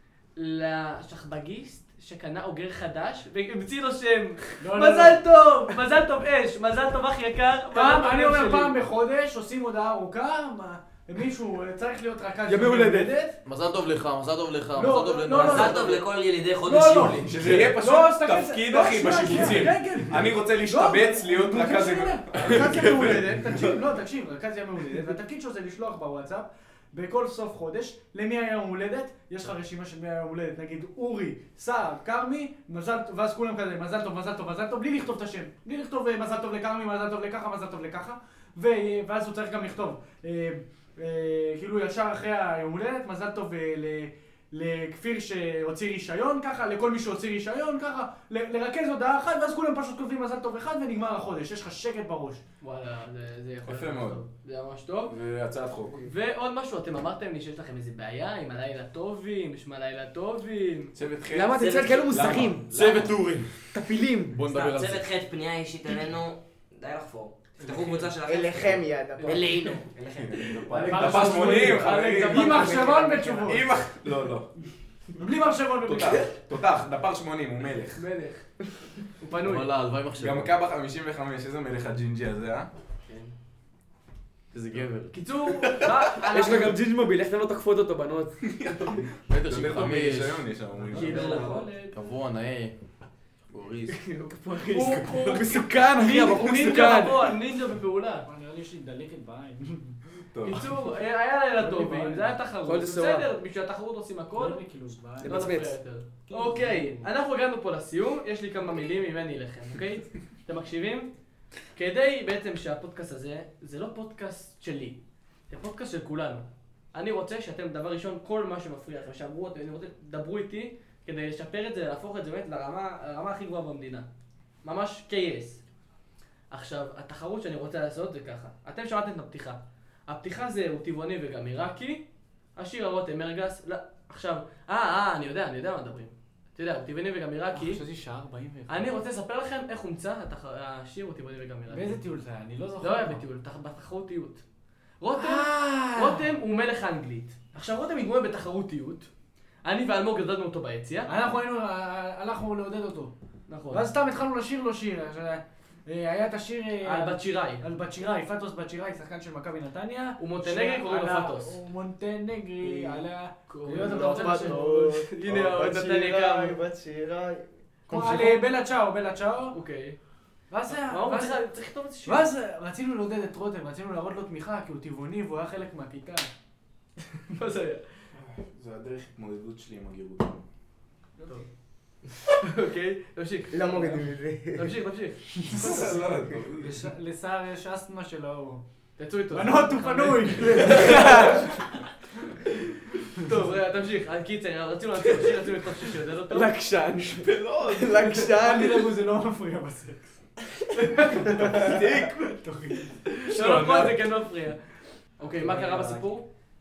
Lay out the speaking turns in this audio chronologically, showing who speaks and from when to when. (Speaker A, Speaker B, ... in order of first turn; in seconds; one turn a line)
Speaker A: 0.4-8.8
Speaker B: 4.6-5.2
Speaker B: 7.7-13.4
Speaker C: 12.5-13.2
Speaker D: 13.4-16.0
Speaker B: 14.8-16.0
Speaker E: 15.4-17.5
Speaker B: 16.6-52.4
Speaker F: 17.2-23.7
Speaker A: 52.6-55.1
Speaker F: 53.6-54.2
Speaker F: 55.1-56.1
Speaker A: 56.0-60.9
Speaker F: 61.0-62.6
Speaker C: 61.3-63.1
Speaker E: 61.6-62.4
Speaker D: 62.3-63.8
Speaker C: 63.7-64.7
Speaker D: 64.3-65.1
Speaker E: 64.6-71.0
Speaker B: 67.6-68.1
Speaker G: 68.3-69.7
Speaker A: 69.2-69.8
Speaker F: 70.2-72.9
Speaker A: 70.7-73.8
Speaker B: 70.8-73.7
Speaker F: 73.5-74.5
Speaker B: 75.2-76.3
Speaker F: 75.9-78.0
Speaker A: 78.0-78.5
Speaker A: 79.0-79.7
Speaker D: 79.4-80.5
Speaker F: 80.2-82.7
Speaker A: 83.1-83.3
Speaker D: 84.5-85.2
Speaker A: 85.1-86.8
Speaker C: 86.3-88.4
Speaker F: 88.4-91.5
Speaker D: 89.3-90.5
Speaker A: 90.9-92.0
Speaker E: 91.0-91.7
Speaker D: 91.8-92.8
Speaker D: 93.5-94.0
Speaker A: 93.9-98.3
Speaker F: 94.8-95.2
Speaker C: 95.1-97.2
Speaker B: 98.3-100.0
Speaker F: 100.3-100.7
Speaker A: 100.4-104.6
Speaker B: 101.6-102.4
Speaker C: 102.6-103.3
Speaker B: 104.4-105.4
Speaker C: 105.2-105.8
Speaker A: 105.2-111.1
Speaker B: 106.3-107.1
Speaker A: 111.8-115.0
Speaker A: 115.5-124.1
Speaker A: 124.6-125.6
Speaker A: 126.5-137.8
Speaker B: 137.5-139.0
Speaker A: 138.7-142.0
Speaker B: 141.7-143.2
Speaker A: 142.8-144.4
Speaker A: 145.0-149.1
Speaker B: 145.2-146.3
Speaker A: 149.7-151.1
Speaker B: 151.1-153.1
Speaker A: 153.5-153.9
Speaker B: 153.7-164.6
Speaker A: 156.8-157.6
Speaker A: 160.2-161.6
Speaker G: 162.6-163.0
Speaker A: 163.5-166.6
Speaker G: 163.7-167.5
Speaker A: 167.9-168.5
Speaker B: 167.9-169.6
Speaker A: 169.5-170.0
Speaker B: 170.5-171.4
Speaker A: 170.9-172.3
Speaker B: 172.1-176.3
Speaker A: 177.3-177.8
Speaker F: 178.2-180.4
Speaker A: 182.3-185.3
Speaker G: 183.5-184.8
Speaker F: 185.5-186.9
Speaker B: 186.6-188.6
Speaker A: 189.0-191.5
Speaker B: 189.3-191.3
Speaker F: 190.7-191.5
Speaker C: 190.8-191.3
Speaker A: 193.1-196.5
Speaker C: 196.3-198.9
Speaker F: 197.1-198.3
Speaker B: 198.2-200.1
Speaker B: 200.9-201.8
Speaker F: 201.3-202.4
Speaker B: 202.4-203.3
Speaker A: 203.2-204.6
Speaker C: 203.4-203.9
Speaker A: 205.2-206.3
Speaker F: 205.5-206.0